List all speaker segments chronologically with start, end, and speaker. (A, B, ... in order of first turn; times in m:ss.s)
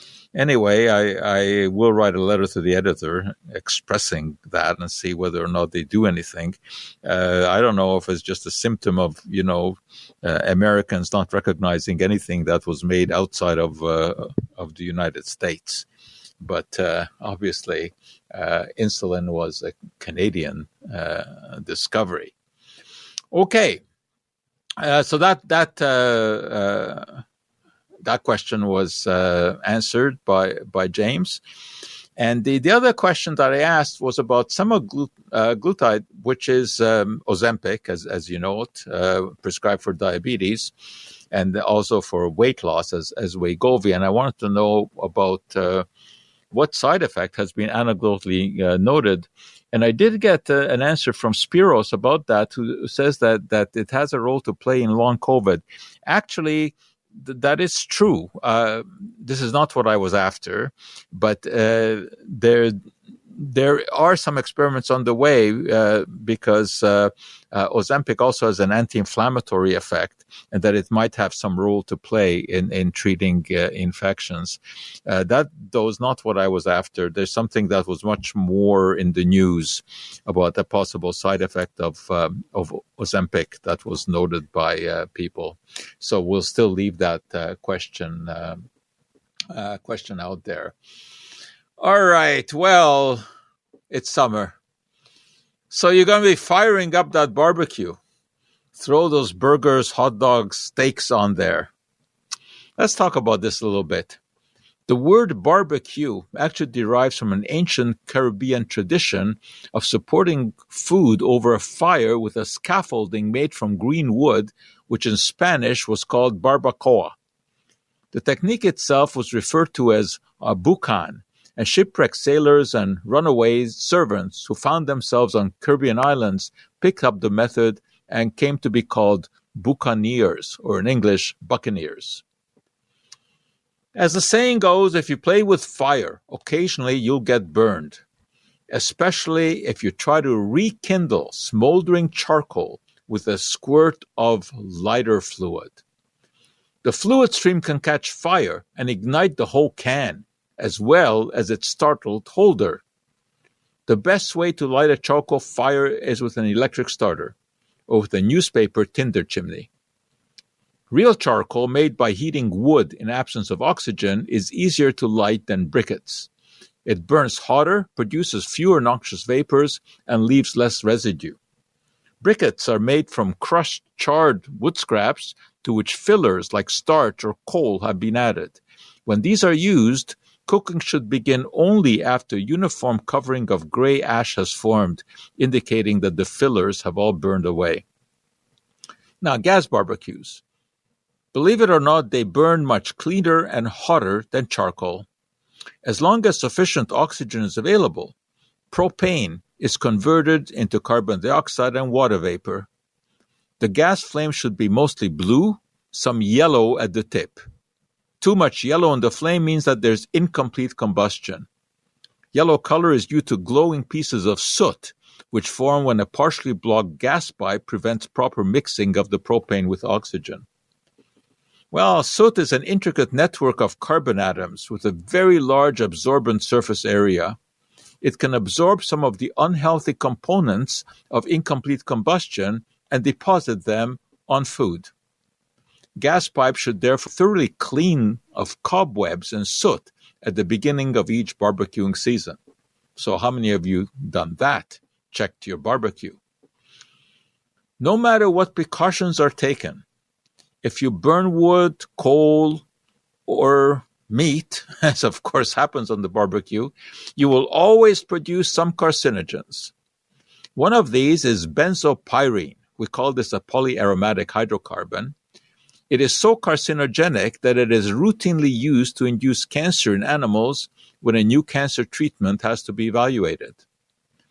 0:00.4-0:15.9 A
0:16.4-0:22.3 A
0:23.3-0:23.8 A
0:24.8-0:27.2 A
0:28.0-0:31.4 A
0:32.2-0:40.7 A
0:41.3-0:45.9 A
0:46.5-1:02.8 A
1:03.3-1:28.7 A
1:29.5-1:30.8 A
1:31.8-1:33.2 A
1:33.9-1:34.6 A
1:35.7-1:38.0 A
1:38.8-1:41.7 A
1:42.8-1:44.2 A
1:44.9-1:57.1 A
1:58.1-2:12.2 A
2:14.0-2:18.0 A
2:18.7-2:25.8 A
2:26.8-2:32.8 A
2:33.9-2:37.4 A
2:37.9-2:39.7 A
2:40.9-2:46.3 A
2:46.8-2:51.4 A
2:52.2-3:07.8 A
3:09.2-3:10.4 A
3:11.3-3:15.1 A
3:15.8-3:18.1 A
3:18.7-3:22.7 A
3:23.6-3:27.4 A
3:28.2-3:31.5 A
3:32.3-3:40.5 A
3:41.7-3:47.4 A
3:48.0-3:54.9 A
3:56.0-4:02.4 A
4:03.0-4:06.2 A
4:07.8-4:09.8 A
4:10.6-4:12.6 A
4:13.3-4:19.7 A
4:20.6-4:25.2 A
4:25.9-4:33.6 A